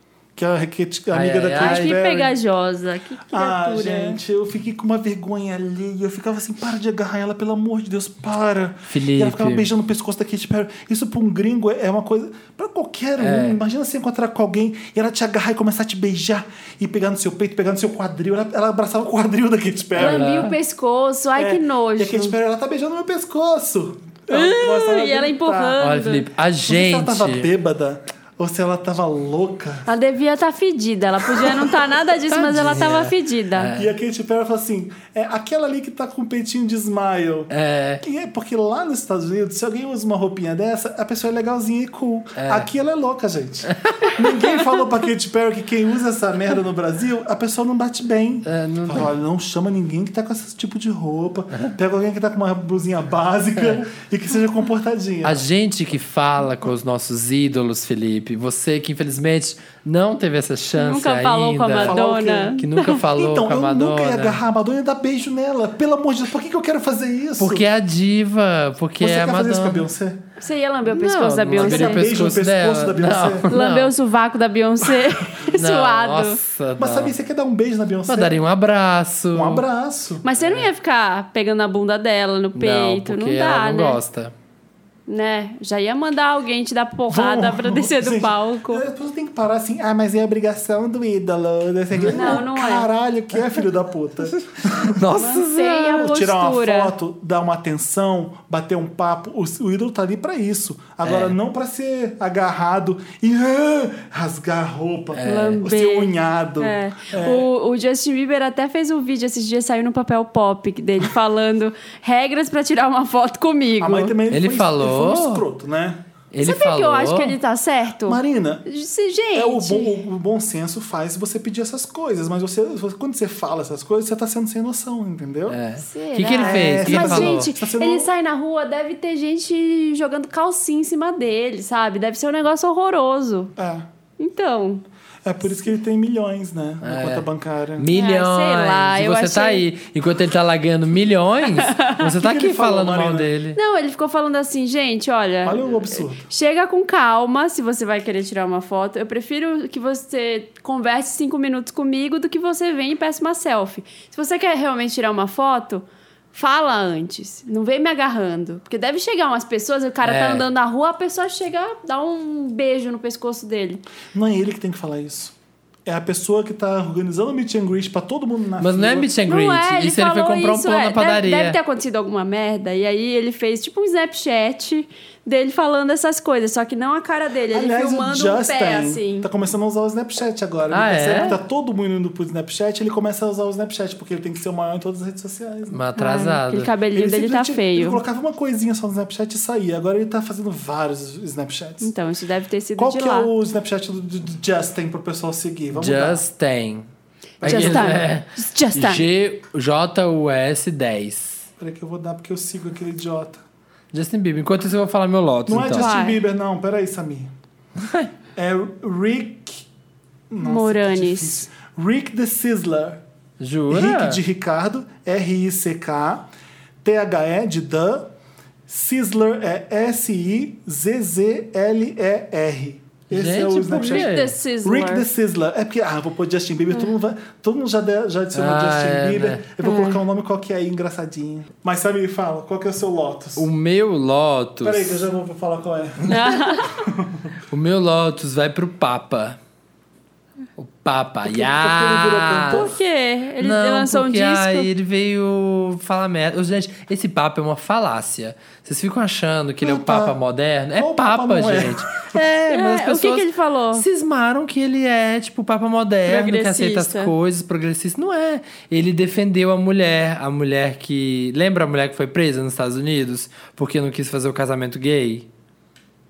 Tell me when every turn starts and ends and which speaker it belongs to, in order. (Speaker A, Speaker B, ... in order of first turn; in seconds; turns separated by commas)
Speaker A: 0.3-2.4, Speaker B: 1.1-2.0, Speaker C: 1.6-4.2, Speaker A: 3.3-20.2, Speaker B: 8.9-9.7, Speaker B: 13.2-13.6, Speaker B: 20.0-20.6, Speaker C: 20.0-22.4, Speaker A: 21.4-25.8, Speaker C: 24.3-26.2, Speaker B: 25.8-27.5, Speaker A: 26.7-29.9, Speaker C: 29.9-33.7, Speaker B: 32.3-33.9, Speaker A: 33.8-55.5, Speaker B: 37.5-38.0, Speaker B: 42.4-42.7, Speaker B: 43.7-44.4, Speaker B: 48.5-49.1, Speaker B: 55.2-62.0, Speaker C: 60.8-63.0, Speaker A: 61.8-67.7, Speaker B: 62.6-64.4, Speaker B: 67.4-69.9, Speaker A: 69.0-70.2, Speaker C: 70.4-72.1, Speaker B: 70.9-73.9, Speaker A: 71.5-73.5, Speaker C: 73.5-76.4, Speaker B: 75.5-77.1, Speaker A: 76.8-78.4, Speaker B: 78.1-79.6, Speaker A: 79.3-80.2, Speaker C: 80.2-84.0, Speaker B: 80.4-80.7, Speaker B: 82.6-84.3, Speaker C: 85.1-88.8, Speaker A: 87.1-95.0, Speaker B: 92.0-92.4, Speaker C: 92.1-92.9, Speaker B: 94.8-96.0, Speaker C: 95.2-97.0, Speaker A: 95.9-107.5, Speaker B: 101.0-101.4, Speaker B: 105.2-105.7, Speaker C: 105.2-114.2, Speaker A: 113.8-116.0, Speaker B: 114.3-115.4, Speaker B: 116.3-117.4, Speaker C: 116.4-119.9, Speaker A: 118.0-118.7, Speaker A: 119.3-125.6, Speaker B: 125.5-127.5, Speaker C: 125.8-133.5, Speaker A: 126.4-128.1, Speaker A: 133.6-133.9, Speaker C: 134.2-134.8, Speaker A: 135.2-137.9, Speaker B: 136.8-137.3, Speaker B: 137.8-143.6, Speaker C: 137.9-139.6, Speaker C: 141.6-142.0, Speaker A: 142.0-143.3, Speaker C: 143.6-163.8, Speaker A: 145.4-146.3, Speaker B: 160.0-160.5, Speaker A: 164.1-169.1, Speaker B: 168.6-171.6, Speaker C: 169.3-179.3, Speaker A: 177.5-185.8, Speaker B: 180.7-181.4, Speaker B: 185.7-186.7, Speaker C: 186.0-188.0, Speaker A: 186.9-191.9, Speaker C: 191.8-193.3, Speaker A: 192.8-196.2, Speaker B: 195.7-196.9, Speaker A: 197.4-198.1, Speaker B: 197.4-201.5, Speaker C: 197.4-199.0, Speaker A: 201.6-203.4, Speaker B: 203.9-205.9, Speaker A: 205.5-207.3, Speaker C: 205.7-206.2, Speaker B: 207.8-208.1, Speaker A: 208.4-209.7, Speaker A: 210.3-213.0, Speaker C: 210.4-211.5, Speaker B: 213.4-214.2, Speaker A: 213.7-216.3, Speaker A: 216.8-218.1, Speaker A: 218.7-233.5, Speaker B: 223.1-224.3, Speaker C: 223.7-225.1, Speaker B: 228.3-229.4, Speaker C: 229.6-230.0, Speaker B: 233.4-235.0, Speaker A: 234.6-237.3, Speaker C: 236.1-236.7, Speaker B: 237.5-239.4, Speaker B: 240.6-242.7, Speaker A: 241.2-242.7, Speaker C: 242.5-244.7, Speaker B: 243.4-265.3, Speaker A: 249.6-250.2, Speaker A: 250.8-252.2, Speaker C: 252.5-253.8, Speaker C: 256.1-257.1